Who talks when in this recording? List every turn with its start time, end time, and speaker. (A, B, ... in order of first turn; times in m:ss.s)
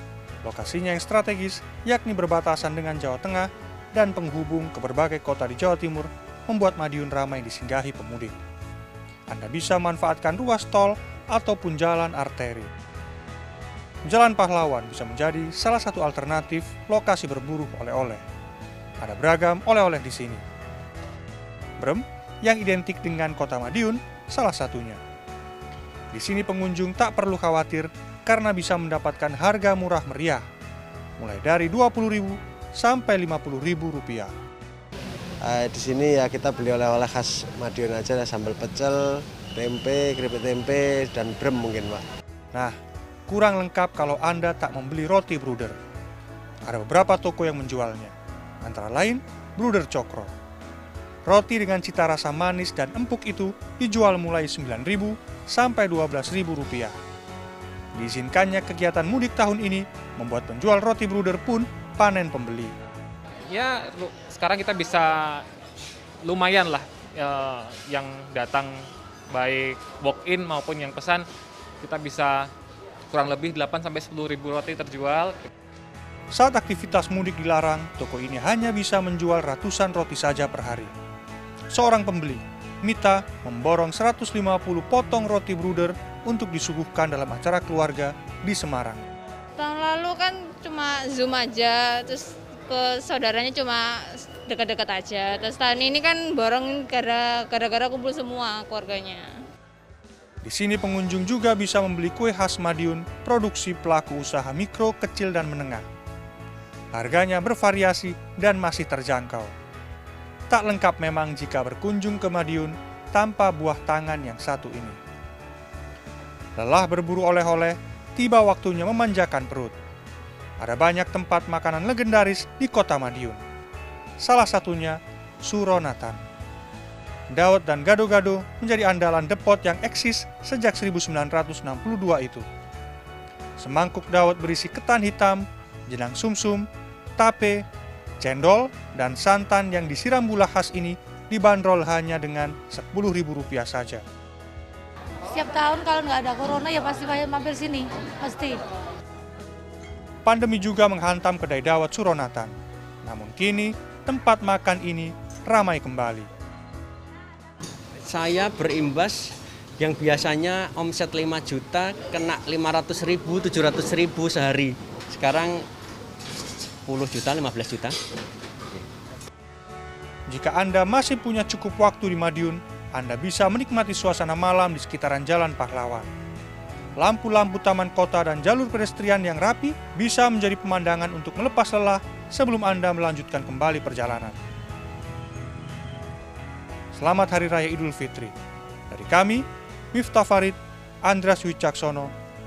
0:00.4-0:08.4 A
0:09.3-0:12.7 A
0:14.1-0:18.2 A
0:19.0-0:20.4 A
0:21.8-0:25.0 A
0:26.1-0:30.4 A
0:31.2-0:34.3 A
0:35.4-0:42.0 B
0:43.3-0:45.8 A
0:46.6-0:50.3 A
0:51.3-0:57.0 A
0:58.0-1:02.7 A
1:03.5-1:05.4 C
1:06.2-1:11.3 C
1:11.8-1:12.5 C
1:13.1-1:15.5 C
1:16.3-1:20.9 A
1:21.7-1:29.0 A
1:29.6-1:39.3 D
1:40.4-1:45.9 A
1:46.9-1:49.5 A
1:50.5-1:55.0 A
1:56.6-1:59.7 A
2:00.6-2:03.4 A
2:04.2-2:06.2 A
2:07.3-2:12.4 A
2:13.6-2:16.7 A
2:17.2-2:17.6 A
2:18.2-2:24.0 A
2:25.3-2:28.6 E
2:30.2-2:32.5 A
2:33.0-2:36.3 A
2:38.0-2:45.7 F
2:46.8-2:48.0 F
2:50.3-2:56.1 A
2:57.0-3:04.4 A
3:06.9-3:08.3 A
3:08.9-3:12.1 A